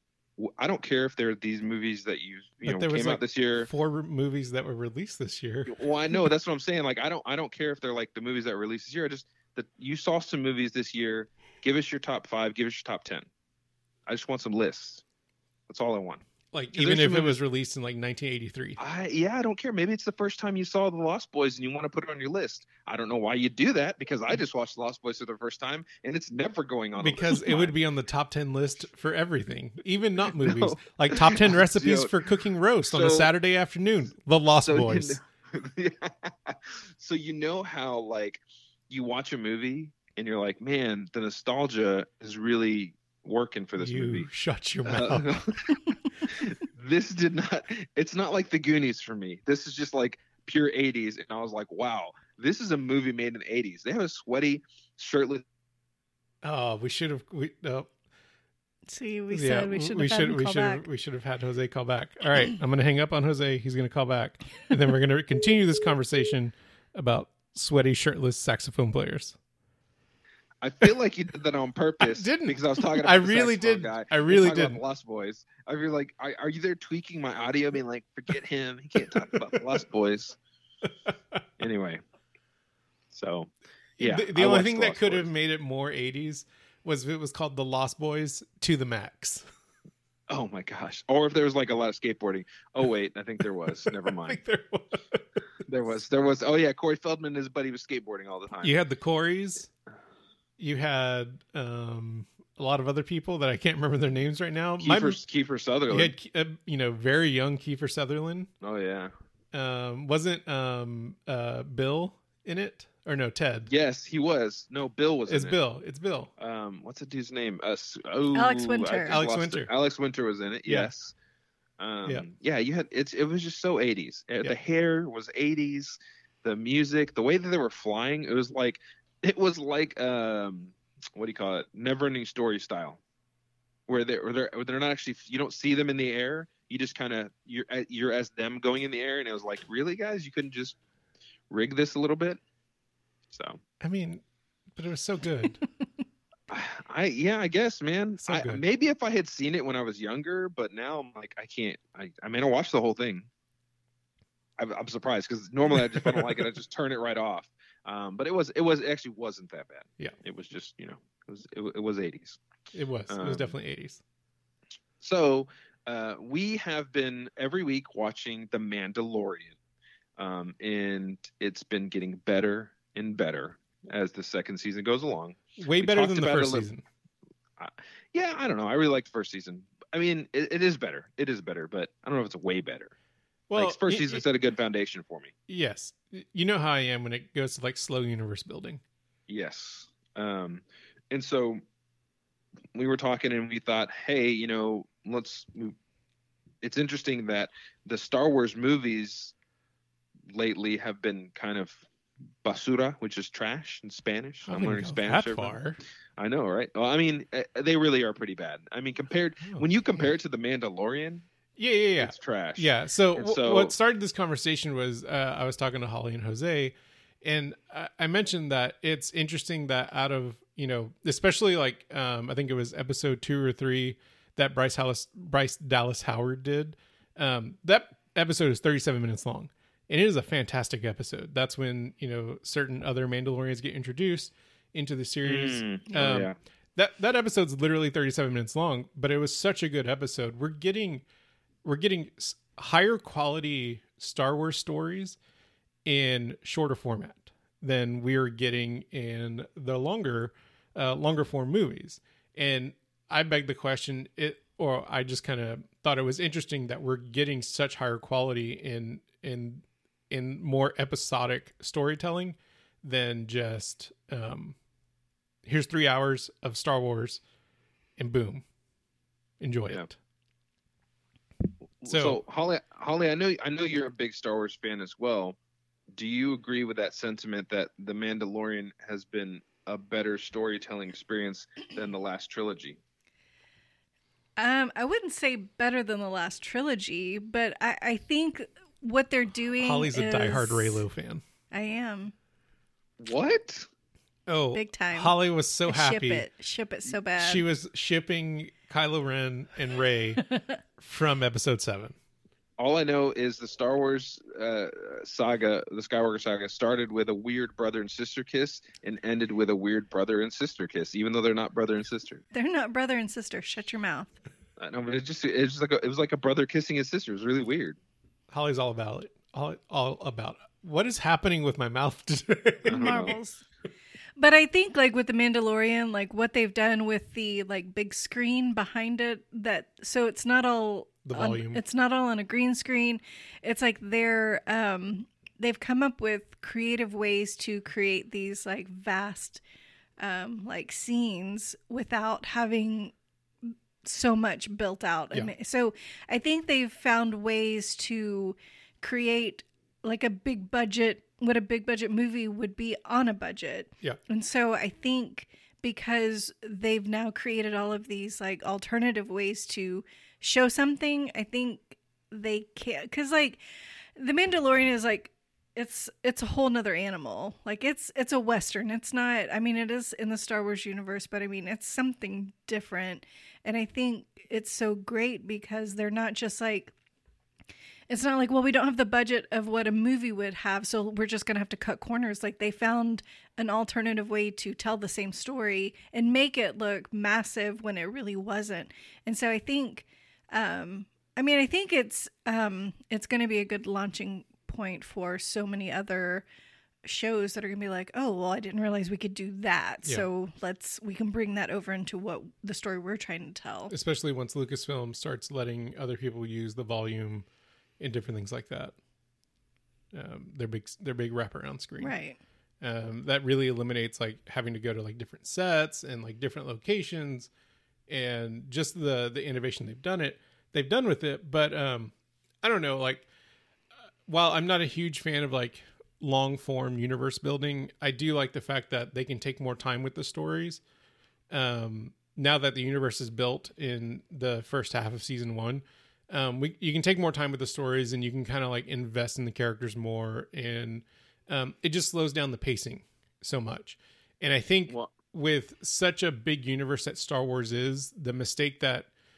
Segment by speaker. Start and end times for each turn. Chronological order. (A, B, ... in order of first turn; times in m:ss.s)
0:00.4-0:03.7 A
0:02.6-0:05.8 B
0:05.7-0:13.3 A
0:14.1-0:15.0 A
0:15.7-0:17.4 A
0:16.5-0:18.8 B
0:18.8-0:27.7 A
0:27.0-0:35.2 B
0:30.4-0:32.1 A
0:32.9-0:33.3 A
0:34.6-0:44.3 A
0:43.8-0:45.5 B
0:44.8-0:55.4 A
0:56.4-0:57.9 B
0:58.9-1:00.8 C
0:59.3-1:09.3 B
1:10.6-1:20.4 A
1:12.0-1:14.8 B
1:19.0-1:19.3 B
1:21.0-1:21.4 B
1:21.6-1:22.0 A
1:23.1-1:25.3 A
1:24.0-1:29.4 B
1:30.3-1:34.4 A
1:33.8-1:35.2 B
1:35.6-1:38.7 A
1:38.6-1:39.7 B
1:40.6-1:45.2 B
1:44.8-1:46.1 A
1:45.9-1:48.5 B
1:48.6-1:49.1 A
1:49.5-1:53.7 B
1:53.7-1:55.6 A
1:55.3-1:56.3 B
1:56.4-2:01.1 A
1:58.3-1:59.2 C
1:59.1-1:59.7 B
2:01.8-2:13.0 A
2:13.9-2:20.8 A
2:21.5-2:22.4 A
2:23.3-2:23.6 A
2:23.8-2:24.2 B
2:24.7-2:25.6 B
2:26.5-2:33.3 A
2:28.2-2:28.6 B
2:34.6-2:42.4 A
2:35.7-2:36.4 B
2:42.7-2:44.0 B
2:43.1-2:43.5 A
2:45.0-2:49.5 A
2:50.2-2:56.7 A
2:55.6-2:56.8 B
2:57.6-3:02.9 A
3:03.5-3:04.2 B
3:03.6-3:05.3 A
3:05.5-3:08.8 B
3:09.3-3:11.6 A
3:12.7-3:15.7 A
3:16.6-3:19.3 A
3:20.3-3:21.8 A
3:22.4-3:25.6 A
3:24.4-3:25.8 B
3:26.2-3:31.2 A
3:29.4-3:30.1 B
3:31.6-4:01.0 B
3:32.0-3:33.7 A
3:55.2-3:56.4 A
4:01.6-4:05.2 B
4:05.8-4:24.6 B
4:25.4-4:27.2 B
4:28.0-4:28.4 B
4:29.4-4:30.0 B
4:31.8-4:35.4 A
4:31.9-4:32.2 B
4:35.9-4:42.8 A
4:44.4-4:50.8 C
4:49.6-4:51.2 B
4:51.5-4:52.1 C
4:53.0-4:53.7 A
4:54.3-4:56.3 B
4:54.5-4:55.1 C
4:55.7-4:57.4 C
4:57.2-5:00.2 B
5:00.8-5:02.0 B
5:02.6-5:12.2 A
5:12.3-5:14.1 C
5:14.6-5:17.8 A
5:18.3-5:23.2 B
5:22.6-5:23.4 C
5:22.6-5:23.1 A
5:24.2-5:39.4 C
5:31.0-5:31.6 B
5:40.0-5:42.9 C
5:43.8-6:03.4 C
6:04.0-6:16.7 C
6:17.9-6:36.2 C
6:36.8-6:43.7 C
6:43.7-6:47.2 B
6:47.8-6:48.7 B
6:49.9-6:51.9 B
6:51.8-6:52.2 C
6:52.6-6:57.3 B
6:57.9-7:03.1 B
7:04.0-7:10.6 B
7:11.3-7:28.9 B